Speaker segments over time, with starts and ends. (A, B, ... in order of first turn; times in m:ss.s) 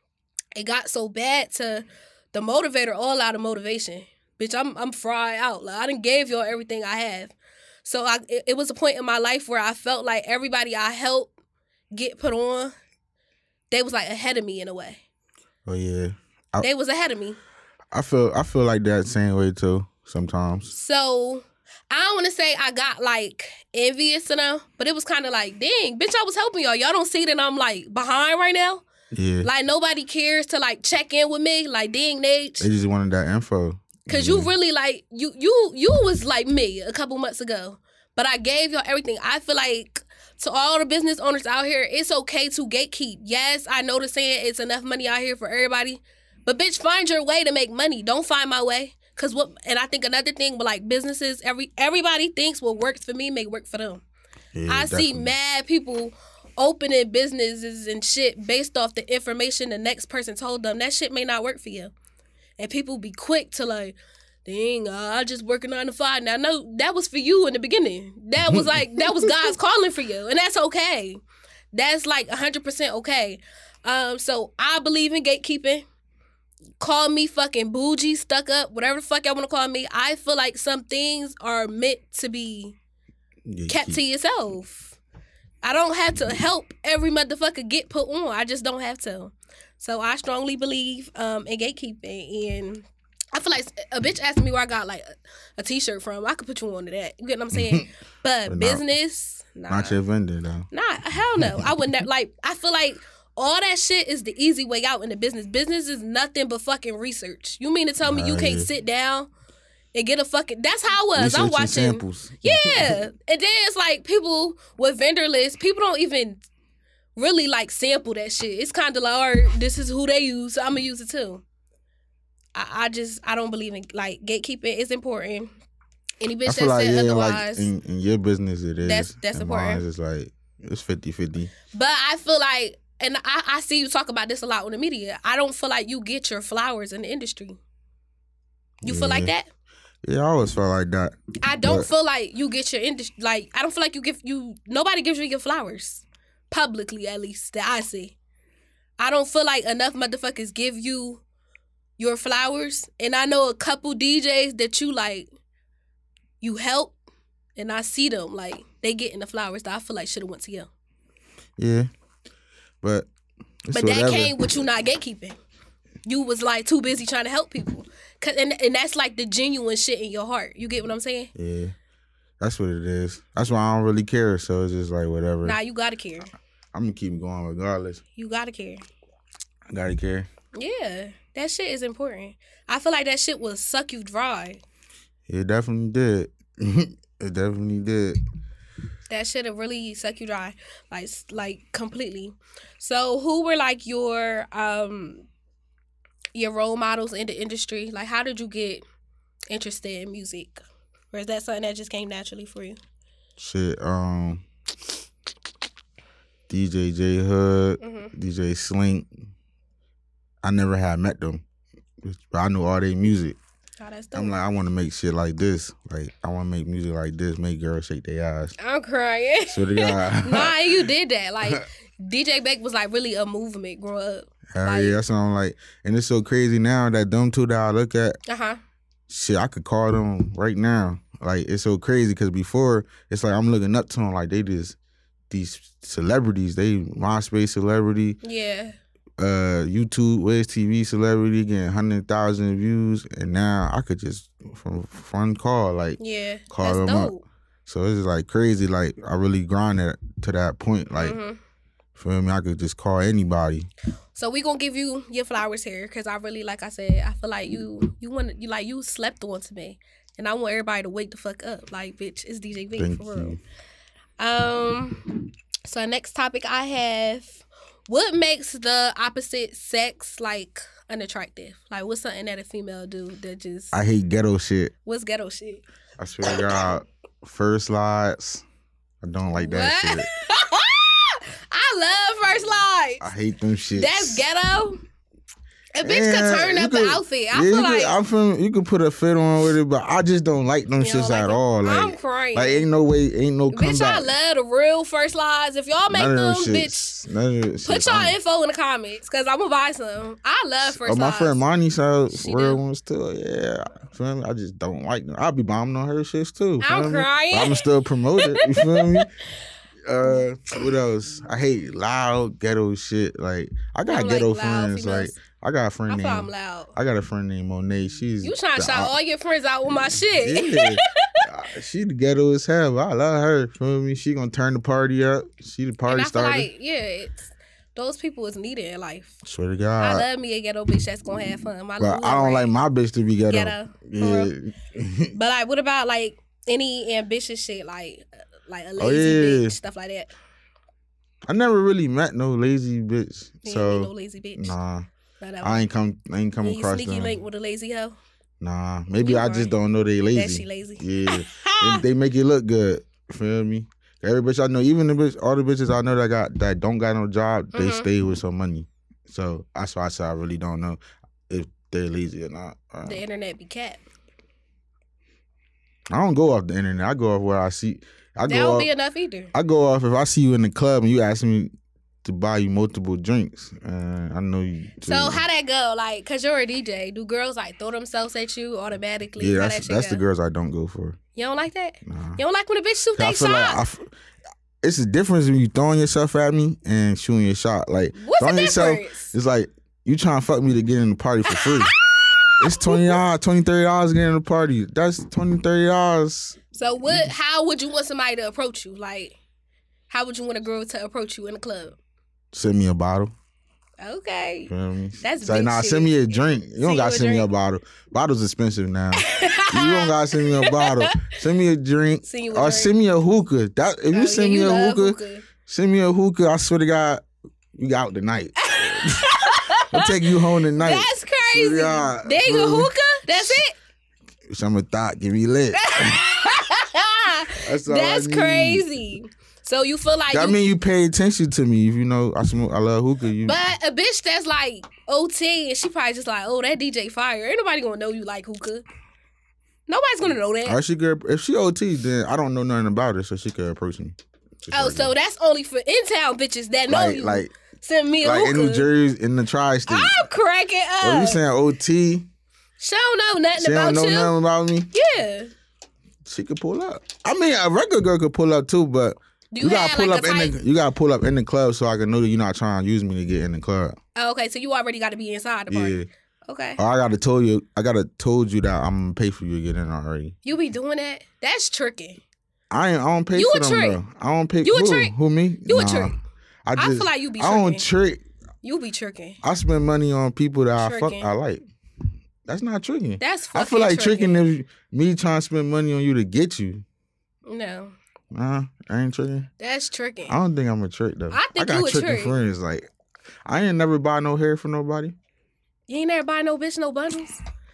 0:00.6-0:07.3 A
0:07.8-0:11.3 A
0:11.9-0:12.7 A
0:13.7-0:15.0 A
0:15.7-0:16.7 B
0:16.6-0:17.4 A
0:17.9-0:20.7 B
0:20.7-0:28.8 A
0:29.1-0:29.5 B
0:29.4-0:32.7 A
0:32.6-0:34.5 B
0:34.1-0:54.0 A
0:54.5-0:55.3 B
0:54.7-1:01.9 A
1:02.6-1:11.2 A
1:08.4-1:09.4 B
1:11.7-1:15.8 A
1:16.8-1:22.8 A
1:23.5-1:24.0 B
1:23.7-1:25.0 A
1:25.6-1:40.0 A
1:37.5-1:37.9 B
1:38.5-1:38.8 B
1:39.7-1:40.7 B
1:40.7-1:49.3 A
1:41.4-1:41.7 B
1:48.0-1:48.7 B
1:50.0-1:56.4 A
1:51.2-1:53.0 B
1:57.2-2:01.4 A
2:02.6-2:05.5 A
2:06.2-2:07.7 A
2:06.5-2:11.5 B
2:08.8-2:09.8 A
2:11.7-2:17.6 A
2:18.8-2:19.3 B
2:18.8-2:19.5 A
2:20.0-2:21.9 B
2:21.4-2:28.1 A
2:29.0-2:31.2 A
2:32.0-2:35.3 A
2:36.4-2:37.0 A
2:37.6-2:40.7 A
2:41.6-2:41.9 B
2:42.8-2:43.1 B
2:43.7-2:44.4 B
2:43.7-2:45.4 A
2:46.1-2:51.3 A
2:51.4-2:51.7 B
2:52.4-2:55.6 B
2:55.4-2:56.3 A
2:56.7-2:58.0 B
2:58.2-2:58.8 A
2:59.7-3:00.3 B
3:00.6-3:04.6 A
3:05.3-3:08.2 B
3:09.1-3:15.3 A
3:16.4-3:18.8 A
3:19.5-3:22.8 A
3:23.4-3:24.4 B
3:26.5-3:29.1 B
3:27.8-3:28.1 A
3:30.4-3:31.4 B
3:32.0-3:33.4 B
3:33.8-3:34.4 A
3:34.1-3:38.5 B
3:38.6-3:45.0 A
3:39.5-3:40.9 B
3:44.5-3:48.2 B
3:48.3-3:48.6 A
3:49.1-3:54.8 B
3:55.3-3:58.2 B
3:58.2-3:58.8 A
3:59.2-4:06.0 B
4:06.0-4:07.2 A
4:06.5-4:07.1 B
4:07.7-4:11.2 B
4:11.0-4:11.4 A
4:12.0-4:13.7 B
4:14.2-4:23.4 A
4:22.8-4:23.4 B
4:24.2-4:33.8 A
4:33.7-4:34.7 B
4:34.9-4:35.6 A
4:36.0-4:38.4 B
4:36.2-4:36.7 A
4:39.0-4:40.1 B
4:39.4-4:43.1 A
4:43.0-4:44.2 B
4:43.8-4:44.8 A
4:45.8-4:48.0 A
4:45.8-4:54.2 B
4:50.8-4:52.7 A
4:53.5-4:57.0 A
4:55.9-4:58.2 B
4:57.6-5:01.4 A
5:00.6-5:09.1 B
5:02.1-5:02.6 A
5:06.6-5:07.6 A
5:08.2-5:09.0 A
5:09.8-5:18.9 B
5:13.9-5:15.2 A
5:15.9-5:16.7 A
5:18.2-5:21.3 A
5:20.2-5:26.5 B
5:25.9-5:29.2 A
5:29.2-5:30.0 B
5:29.8-5:32.5 A
5:31.8-5:35.1 B
5:33.3-5:34.3 A
5:35.1-5:40.1 A
5:38.8-5:39.6 B
5:41.3-5:44.9 B
5:43.4-5:44.6 A
5:45.2-5:45.7 A
5:45.4-5:47.2 B
5:46.4-5:48.0 A
5:48.4-6:03.0 B
5:49.0-5:49.5 A
5:50.1-5:51.8 A
5:57.5-5:57.9 A
6:02.8-6:03.8 A
6:05.9-6:08.7 B
6:08.3-6:09.3 A
6:09.3-6:11.5 B
6:12.0-6:15.2 B
6:14.8-6:20.0 A
6:19.2-6:21.0 B
6:21.2-6:23.6 A
6:21.9-6:22.2 B
6:23.0-6:23.9 B
6:24.6-6:31.8 B
6:28.0-6:29.1 A
6:31.3-6:33.0 A
6:32.4-6:36.4 B
6:36.5-6:39.2 A
6:39.9-6:41.8 A
6:42.3-6:43.1 B
6:43.8-6:47.3 A
6:44.5-7:03.4 B
6:49.0-6:51.1 A
6:52.0-6:52.8 A
6:53.9-6:55.3 A
6:58.4-7:00.0 A
7:00.5-7:03.5 A
7:04.3-7:06.0 B
7:05.5-7:10.4 A
7:07.4-7:08.6 B
7:10.1-7:13.4 B
7:13.2-7:18.6 A
7:19.7-7:20.6 A
7:20.4-7:24.9 B
7:24.5-7:28.7 A
7:26.7-7:27.3 B
7:28.0-7:30.0 B
7:29.7-7:31.2 A
7:30.8-7:32.1 B
7:32.6-7:34.2 A
7:33.4-7:34.7 B
7:34.7-7:35.3 A
7:36.0-7:43.8 B
7:39.3-7:40.4 A
7:44.0-7:46.6 A
7:45.5-7:45.9 B
7:46.6-7:50.2 B
7:50.2-7:52.0 A
7:52.5-7:58.0 B
7:53.1-7:53.8 A
7:54.4-7:56.0 A
7:56.6-7:57.7 A
7:58.4-7:59.2 A
7:59.2-8:01.4 B
8:00.6-8:01.1 A
8:02.2-8:06.6 B
8:03.0-8:04.3 A
8:07.3-8:07.7 A
8:08.1-8:09.3 B
8:09.4-8:10.2 A
8:10.1-8:12.7 B
8:11.1-8:12.2 A
8:13.3-8:15.0 B
8:15.7-8:17.2 A